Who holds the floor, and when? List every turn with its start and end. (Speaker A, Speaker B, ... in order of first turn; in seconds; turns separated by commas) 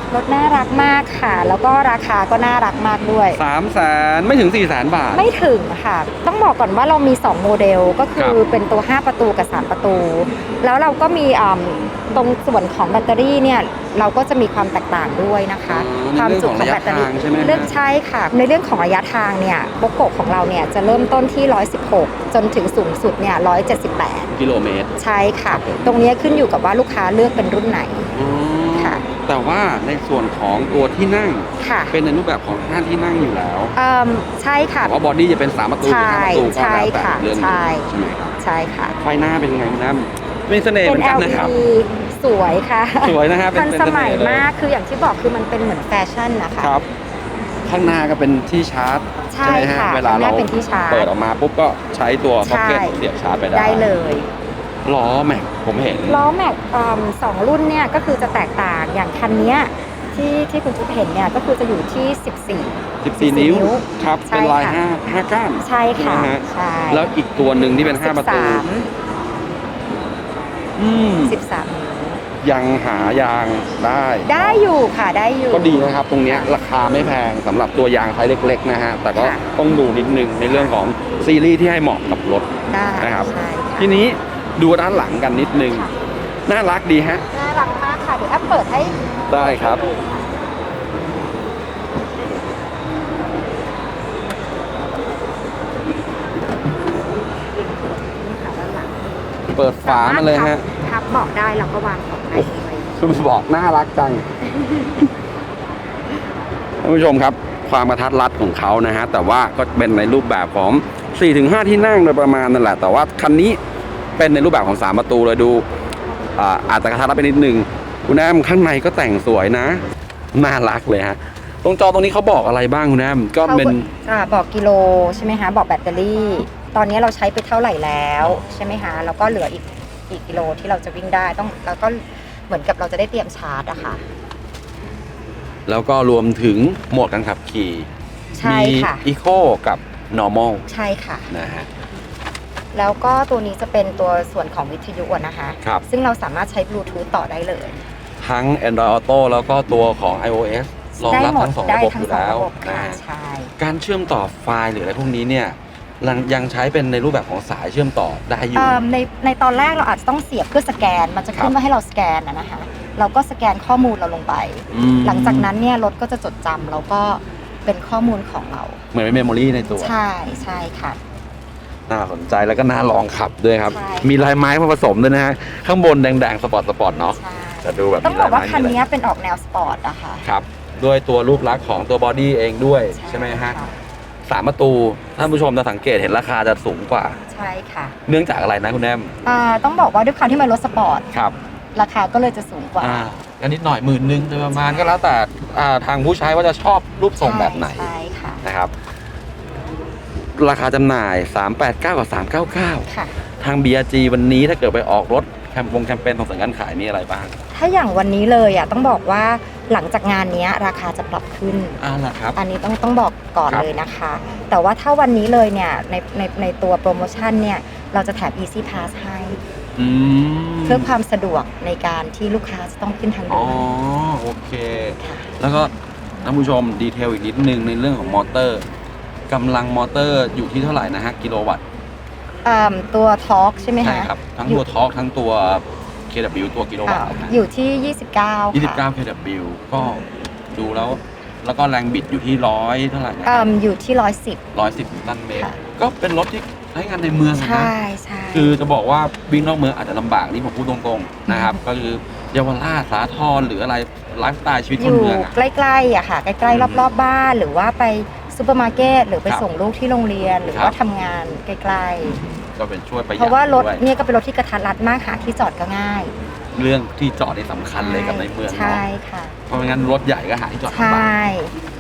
Speaker A: 0.1-3.4, Speaker B: 3.4-5.3, Speaker A: 5.1-24.3, Speaker B: 15.7-17.7, Speaker B: 24.3-24.9, Speaker A: 25.0-28.1, Speaker B: 25.5-26.2, Speaker B: 28.1-33.7, Speaker A: 28.8-29.0, Speaker A: 31.6-32.0, Speaker A: 33.8-34.9, Speaker B: 34.8-38.3, Speaker A: 35.8-39.0, Speaker B: 39.0-41.5, Speaker A: 40.8-46.8, Speaker B: 43.0-44.5, Speaker B: 46.6-46.9, Speaker B: 47.7-53.9, Speaker A: 49.3-51.1, Speaker A: 52.4-53.0, Speaker A: 53.5-54.3, Speaker B: 54.8-56.3, Speaker A: 56.1-64.8, Speaker B: 63.0-68.7, Speaker A: 65.6-67.1, Speaker A: 68.0-68.9, Speaker B: 70.8-71.4, Speaker A: 71.2-72.2, Speaker B: 72.4-74.6, Speaker A: 74.2-76.5, Speaker B: 75.5-82.5, Speaker A: 79.1-79.5, Speaker A: 80.5-80.7, Speaker A: 82.7-84.0, Speaker B: 83.0-85.9, Speaker B: 86.5-87.2, Speaker A: 87.3-90.2, Speaker B: 89.3-89.8, Speaker A: 97.6-99.0, Speaker B: 99.5-100.6, Speaker A: 99.8-102.9, Speaker B: 102.3-104.2, Speaker A: 104.5-104.9, Speaker B: 106.8-113.6, Speaker B: 114.2-115.6, Speaker B: 116.4-119.8, Speaker B: 120.3-123.9, Speaker A: 123.5-134.0, Speaker B: 128.2-128.6, Speaker B: 135.7-137.9, Speaker A: 138.3-139.0, Speaker B: 138.4-140.7, Speaker A: 140.7-141.3, Speaker B: 141.3-141.7, Speaker A: 142.7-147.8, Speaker B: 148.2-153.0, Speaker A: 150.9-153.5, Speaker B: 153.6-158.8, Speaker A: 158.6-168.8, Speaker B: 164.7-165.5, Speaker B: 168.9-169.9, Speaker A: 169.8-171.0, Speaker B: 171.9-178.8, Speaker A: 173.7-174.1, Speaker A: 177.2-180.3, Speaker B: 180.2-183.6, Speaker A: 182.9-183.8, Speaker B: 184.3-187.2, Speaker A: 187.3-188.0, Speaker B: 188.1-189.1, Speaker A: 189.2-191.1, Speaker A: 191.8-193.1, Speaker B: 192.8-197.9, Speaker A: 194.5-195.0, Speaker A: 197.2-198.4, Speaker B: 198.4-198.7, Speaker B: 200.4-202.9, Speaker A: 202.9-203.2, Speaker B: 203.4-207.3, Speaker A: 207.5-211.8, Speaker B: 211.8-212.4, Speaker A: 212.4-219.4, Speaker B: 219.8-220.9, Speaker A: 220.7-223.7, Speaker B: 223.3-228.7, Speaker A: 225.0-225.3, Speaker B: 229.3-231.6, Speaker A: 232.4-234.6, Speaker B: 233.8-237.4, Speaker A: 236.8-238.8, Speaker B: 238.5-243.5, Speaker A: 243.2-244.4, Speaker B: 244.5-247.7, Speaker A: 247.3-248.6, Speaker B: 248.3-255.4, Speaker A: 251.3-251.6, Speaker A: 254.8-262.2, Speaker B: 256.5-256.9, Speaker B: 260.5-260.8, Speaker B: 262.6-263.8, Speaker A: 263.2-266.1, Speaker B: 266.6-268.9, Speaker A: 267.8-269.4, Speaker B: 269.5-271.1, Speaker A: 270.7-271.5